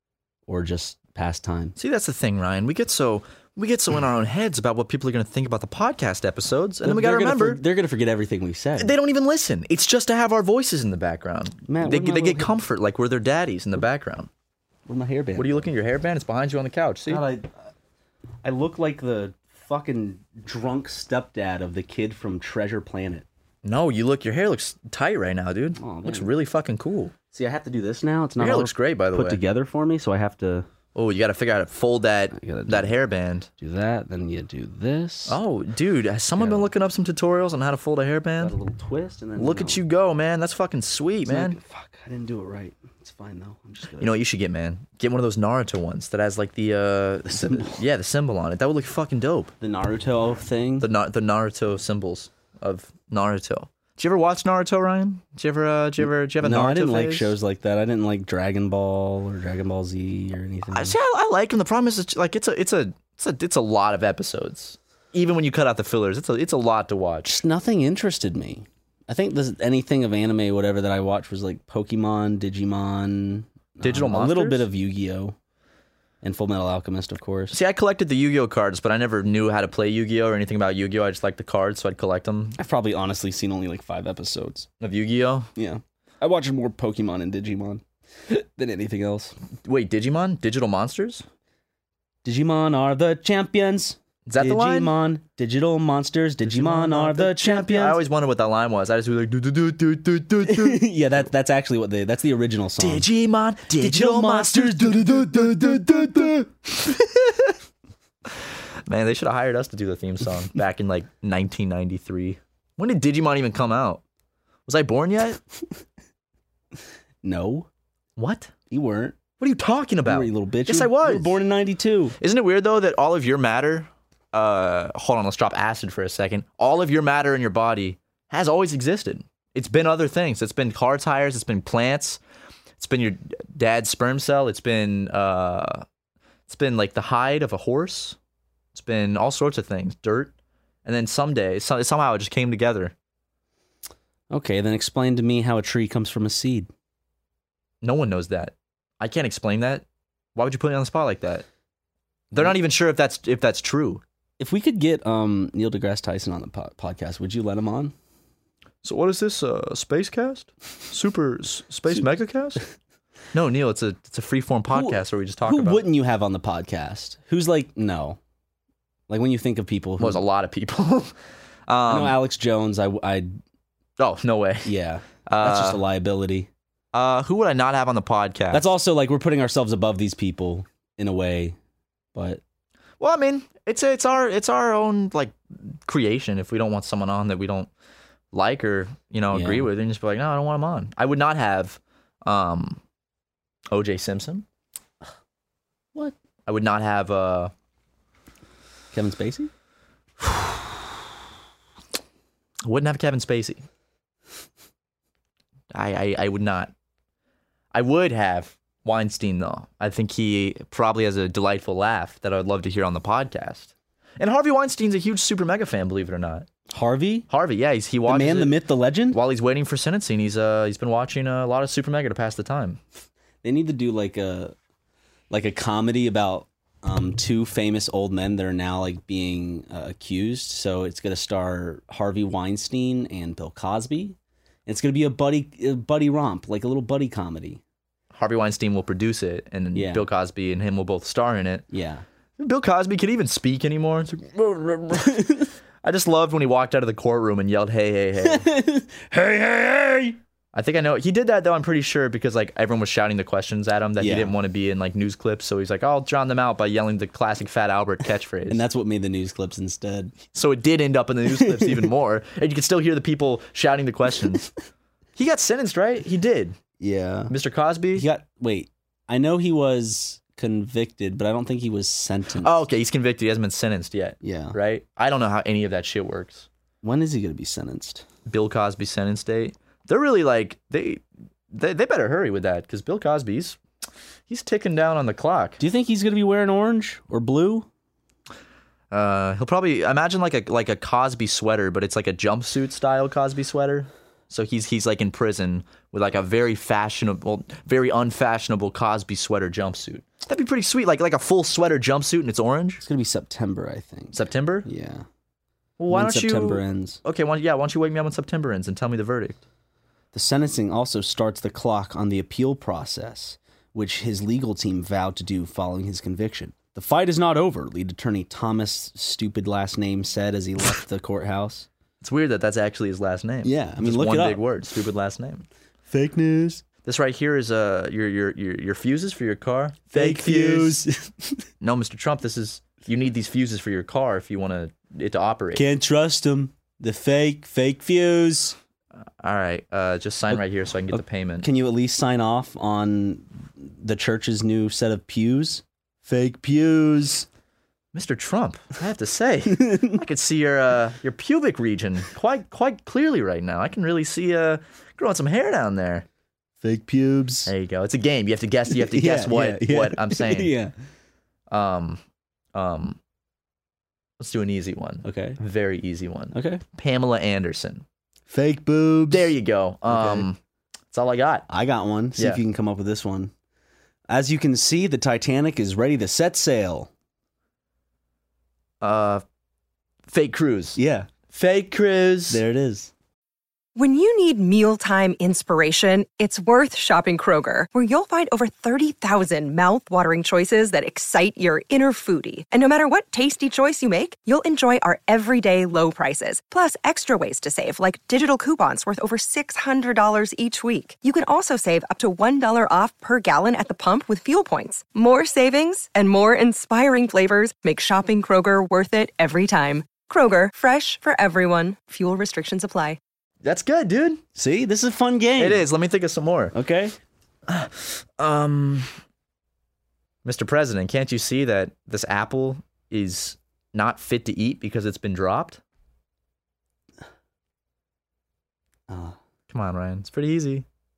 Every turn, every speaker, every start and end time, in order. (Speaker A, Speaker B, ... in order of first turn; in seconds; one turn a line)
Speaker A: 0.5-1.8
Speaker B: 1.8-7.6
Speaker A: 6.8-9.0
Speaker B: 8.8-14.3
Speaker A: 11.7-12.5
Speaker A: 14.9-15.7
Speaker B: 15.4-17.2
Speaker A: 17.1-17.5
Speaker A: 18.4-23.3
Speaker B: 23.6-27.1
Speaker A: 25.8-26.3
Speaker A: 27.3-30.7
Speaker B: 28.4-29.4
Speaker B: 30.9-33.5
Speaker A: 32.3-33.0
Speaker A: 33.6-35.4
Speaker B: 35.3-38.5
Speaker A: 36.4-36.7
Speaker A: 38.4-39.8
Speaker B: 39.4-41.6
Speaker A: 41.3-44.2
Speaker B: 44.0-49.5
Speaker A: 47.3-47.8
Speaker A: 49.6-50.9
Speaker B: 50.8-57.3
Speaker A: 56.0-61.0
Speaker B: 60.7-67.4
Speaker A: 67.2-75.4
Speaker B: 73.8-74.7
Speaker A: 76.2-77.6
Speaker B: 77.5-82.6
Speaker A: 82.6-84.7
Speaker B: 84.8-85.5
Speaker A: 85.6-89.3
Speaker B: 89.7-91.2
Speaker A: 92.2-98.0
Speaker B: 94.3-94.9
Speaker B: 96.4-100.8
Speaker A: 100.5-103.1
Speaker B: 102.8-107.5
Speaker A: 103.7-106.4
Speaker B: 108.9-114.0
Speaker B: 114.7-115.4
Speaker A: 117.2-117.7
Speaker B: 118.2-118.5
Speaker A: 118.7-119.2
Speaker B: 119.4-121.3
Speaker A: 120.0-122.2
Speaker B: 122.2-132.2
Speaker B: 132.8-135.8
Speaker B: 136.5-138.2
Speaker B: 138.8-140.3
Speaker B: 140.8-142.9
Speaker A: 144.3-146.7
Speaker B: 147.8-149.8
Speaker B: 150.3-151.5
Speaker B: 152.3-154.0
Speaker A: 154.4-157.9
Speaker B: 158.8-162.6
Speaker B: 163.3-165.8
Speaker A: 164.7-168.2
Speaker A: 169.1-170.2
Speaker B: 170.0-171.1
Speaker B: 171.7-172.2
Speaker A: 171.9-173.3
Speaker B: 174.0-174.7
Speaker A: 174.7-176.5
Speaker B: 175.3-175.8
Speaker B: 176.9-178.7
Speaker A: 178.5-181.6
Speaker A: 182.2-182.4
Speaker B: 183.0-187.7
Speaker B: 188.3-192.8
Speaker A: 189.3-189.7
Speaker B: 193.7-194.4
Speaker B: 196.5-197.5
Speaker A: 198.9-199.5
Speaker B: 202.6-203.7
Speaker B: 205.7-206.7
Speaker B: 207.7-216.5
Speaker A: 216.7-217.3
Speaker B: 217.3-218.6
Speaker A: 218.1-219.2
Speaker B: 219.1-222.8
Speaker A: 223.4-224.6
Speaker A: 225.3-237.6
Speaker B: 238.1-241.7
Speaker A: 239.7-240.1
Speaker A: 241.7-242.1
Speaker B: 242.4-248.5
Speaker A: 244.9-245.4
Speaker A: 248.2-250.2
Speaker B: 250.5-258.6
Speaker A: 254.0-254.3
Speaker A: 258.5-260.2
Speaker B: 260.3-264.5
Speaker A: 261.3-261.9
Speaker B: 265.2-266.6
Speaker A: 266.8-267.3
Speaker B: 267.3-268.1
Speaker A: 267.9-272.5
Speaker B: 272.4-276.5
Speaker A: 274.2-274.6
Speaker A: 276.8-278.1
Speaker B: 278.3-283.6
Speaker B: 284.3-285.6
Speaker A: 285.6-287.7
Speaker B: 288.9-302.8
Speaker A: 302.8-305.1
Speaker B: 304.1-304.7
Speaker B: 305.8-309.4
Speaker A: 305.9-307.0
Speaker A: 310.1-321.7
Speaker B: 322.0-325.5
Speaker A: 323.4-324.4
Speaker A: 325.9-326.6
Speaker B: 326.9-330.8
Speaker A: 329.9-331.4
Speaker B: 331.6-335.7
Speaker A: 335.5-338.6
Speaker B: 339.2-341.5
Speaker A: 340.3-347.3
Speaker B: 347.9-356.1
Speaker A: 349.5-350.0
Speaker A: 356.6-357.5
Speaker B: 357.5-360.5
Speaker A: 358.7-360.7
Speaker B: 361.5-362.0
Speaker B: 362.5-363.0
Speaker B: 364.2-367.8
Speaker A: 365.0-365.4
Speaker A: 366.3-366.6
Speaker A: 368.3-369.3
Speaker B: 369.1-370.4
Speaker A: 369.9-370.3
Speaker B: 370.9-371.5
Speaker A: 371.5-373.3
Speaker A: 374.1-376.9
Speaker B: 378.8-379.2
Speaker B: 380.1-380.8
Speaker A: 380.8-381.1
Speaker B: 381.3-382.4
Speaker A: 382.3-382.9
Speaker C: 383.8-413.0
Speaker B: 413.4-414.2
Speaker A: 414.4-415.7
Speaker B: 415.4-416.5
Speaker A: 416.5-417.0
Speaker B: 417.5-418.9
Speaker B: 420.2-425.6
Speaker A: 428.9-429.2
Speaker B: 429.5-430.6